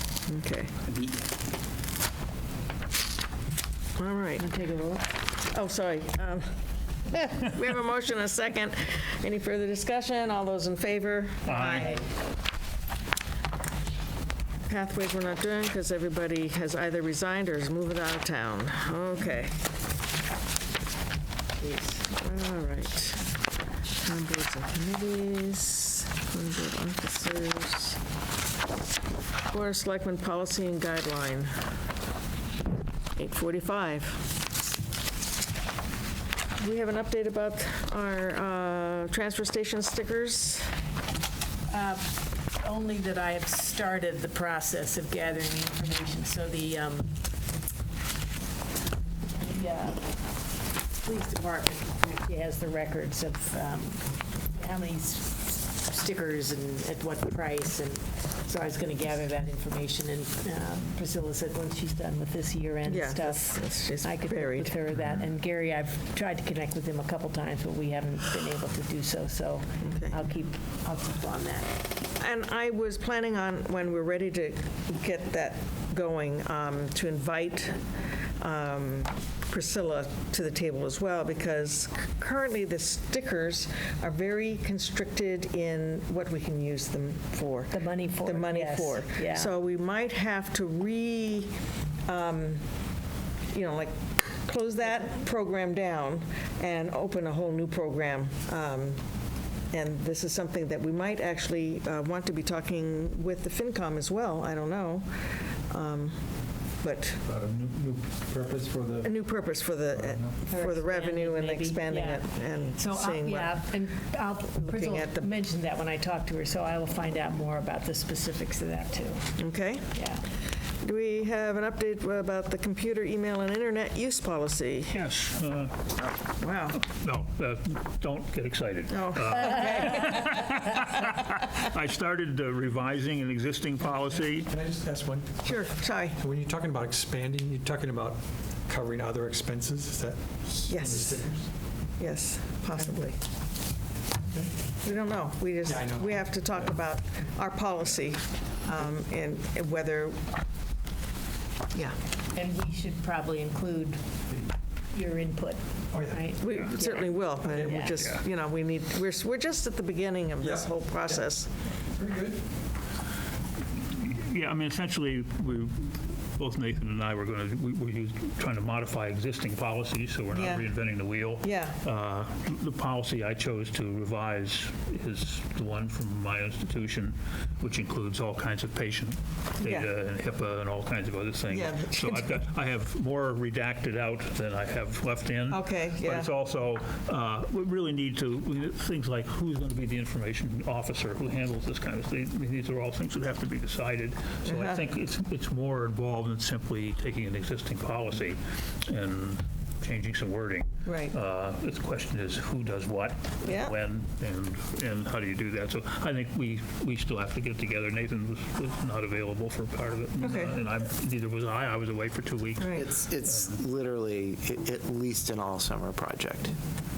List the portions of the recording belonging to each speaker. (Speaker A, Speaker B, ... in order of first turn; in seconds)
Speaker A: 0.2-0.7, 4.0-4.4, 5.5-12.0, 14.7-19.6, 21.6-23.2, 24.0-28.0, 29.5-31.5, 33.1-34.3, 36.6-40.7, 62.8-64.7, 69.8-70.2, 72.2-77.8, 78.4-91.5, 92.1-92.7, 93.5-99.0, 99.7-106.2, 106.8-107.2, 109.0-113.6, 114.6-115.3, 119.4-119.9, 120.8-125.0, 126.4-126.8, 128.9-130.2, 135.4-136.2, 140.7-141.2, 142.0-143.2, 144.8-150.2, 156.4-161.5, 170.3-170.7, 171.4-171.8, 179.6-179.9, 181.5-182.4, 185.5-186.3, 194.4-194.8, 200.8-201.1, 203.4-203.7, 210.2-210.6, 212.6-212.8
Speaker B: 0.9-1.1, 212.8-216.6
Speaker C: 4.4-5.1, 41.7-47.1, 49.4-50.2, 50.9-71.8, 87.7-89.5, 110.5-119.3, 119.9-120.2, 152.3-154.0, 154.9-158.0
Speaker D: 11.4-12.0, 124.9-126.0, 126.7-134.5, 163.9-213.6
Speaker E: 107.3-109.1, 110.0-110.3, 134.1-141.4, 145.7-146.2, 155.9-156.2, 157.4-157.8, 160.4-161.2, 161.9-162.4